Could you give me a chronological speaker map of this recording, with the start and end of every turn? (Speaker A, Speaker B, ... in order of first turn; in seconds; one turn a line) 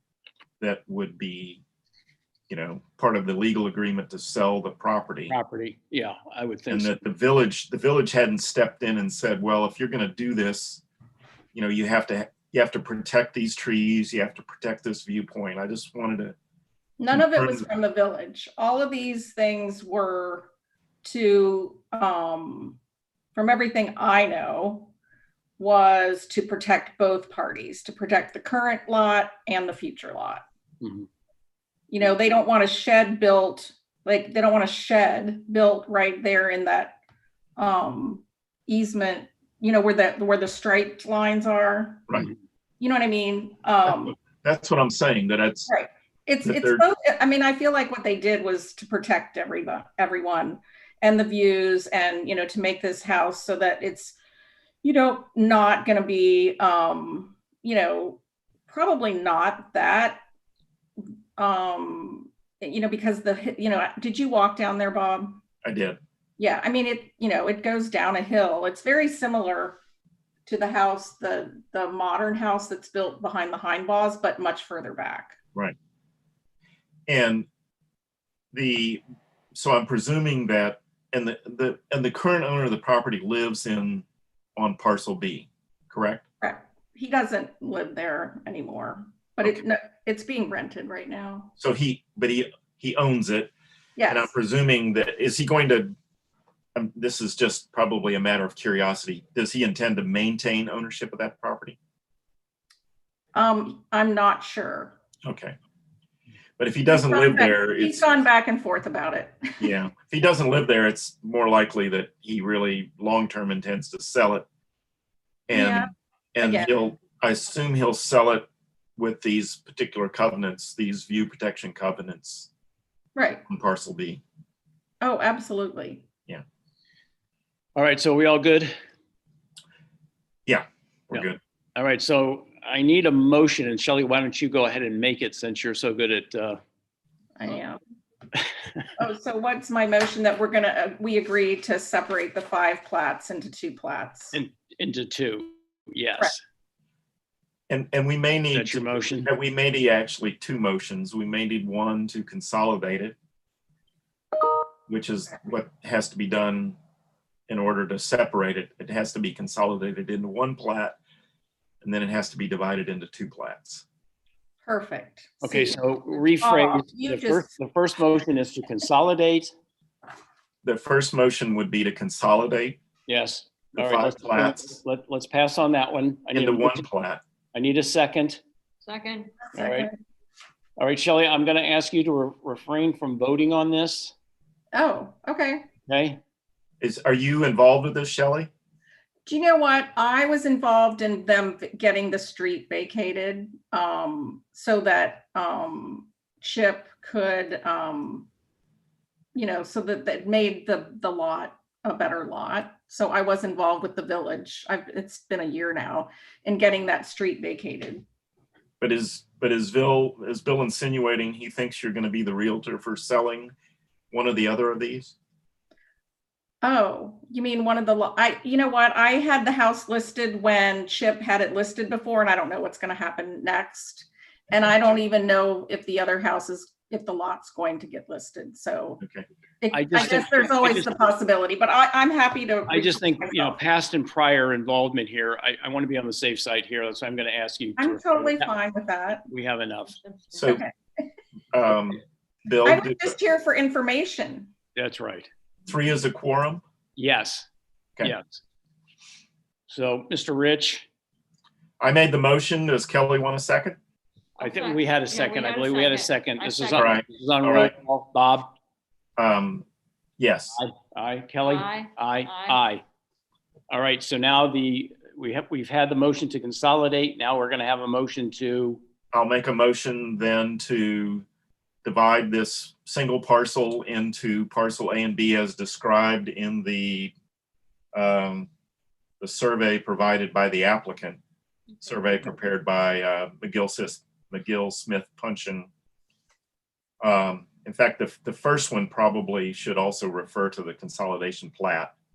Speaker A: 0.6-1.6
Speaker A: 2.5-5.3
Speaker B: 5.3-6.9
Speaker A: 6.7-10.8
Speaker A: 11.5-16.4
Speaker C: 17.0-20.5
Speaker A: 17.1-17.7
Speaker C: 21.0-22.8
Speaker C: 23.3-24.9
Speaker C: 25.6-30.4
Speaker B: 30.8-31.1
Speaker C: 31.9-37.0
Speaker C: 37.6-42.1
Speaker C: 42.8-44.2
Speaker A: 44.0-45.7
Speaker C: 45.7-54.1
Speaker A: 46.4-46.8
Speaker C: 54.8-60.2
Speaker C: 61.4-65.4
Speaker A: 65.6-66.0
Speaker C: 66.4-69.8
Speaker C: 70.5-75.4
Speaker A: 77.1-77.5
Speaker A: 78.5-79.0
Speaker A: 79.5-84.0
Speaker A: 84.5-86.2
Speaker C: 86.4-91.5
Speaker A: 91.6-93.5
Speaker C: 94.0-94.3
Speaker A: 94.1-95.9
Speaker A: 96.7-101.8
Speaker C: 103.3-105.0
Speaker A: 105.2-105.5
Speaker A: 106.6-108.1
Speaker C: 106.8-109.7
Speaker A: 109.6-114.5
Speaker A: 115.5-122.5
Speaker C: 115.5-115.9
Speaker C: 116.4-116.7
Speaker C: 123.2-123.4
Speaker A: 123.5-124.2
Speaker C: 125.0-126.0
Speaker B: 127.8-128.7
Speaker A: 130.4-131.4
Speaker B: 131.1-136.6
Speaker C: 137.4-137.8
Speaker B: 138.3-138.9
Speaker C: 139.0-144.4
Speaker B: 144.3-146.4
Speaker A: 147.7-153.2
Speaker B: 148.5-149.3
Speaker A: 154.9-156.8
Speaker A: 157.5-161.0
Speaker A: 161.8-163.8
Speaker C: 164.6-165.8
Speaker B: 165.4-169.5
Speaker C: 166.4-167.4
Speaker A: 170.6-172.8
Speaker B: 173.1-176.8
Speaker A: 173.7-174.7
Speaker A: 176.3-177.2
Speaker B: 177.5-178.4
Speaker D: 178.8-179.3
Speaker C: 179.4-179.9
Speaker B: 179.5-179.9
Speaker B: 180.8-184.1
Speaker C: 184.7-185.7
Speaker B: 185.9-186.2
Speaker A: 186.8-188.5
Speaker C: 189.2-198.3
Speaker C: 199.3-208.0
Speaker A: 208.8-213.5
Speaker A: 214.1-215.1
Speaker C: 216.6-229.0
Speaker A: 229.0-229.2
Speaker C: 229.6-233.6
Speaker B: 229.7-231.2
Speaker B: 232.7-238.5
Speaker C: 237.8-239.3
Speaker B: 239.3-240.0
Speaker A: 240.3-240.6
Speaker C: 240.5-241.1
Speaker A: 241.5-243.2
Speaker C: 242.6-244.5
Speaker B: 244.8-245.3
Speaker A: 245.7-246.6
Speaker B: 246.9-247.5
Speaker B: 248.0-248.4
Speaker B: 249.7-250.9
Speaker A: 251.8-253.8
Speaker D: 254.4-256.9
Speaker B: 254.4-258.5
Speaker A: 256.7-257.7
Speaker A: 259.2-259.6
Speaker A: 260.2-260.6
Speaker B: 260.5-262.8
Speaker D: 261.4-262.6
Speaker B: 263.7-268.8
Speaker A: 269.1-271.2
Speaker A: 271.8-277.1
Speaker A: 277.9-278.5
Speaker A: 279.2-281.2
Speaker A: 281.8-285.7
Speaker A: 287.0-291.9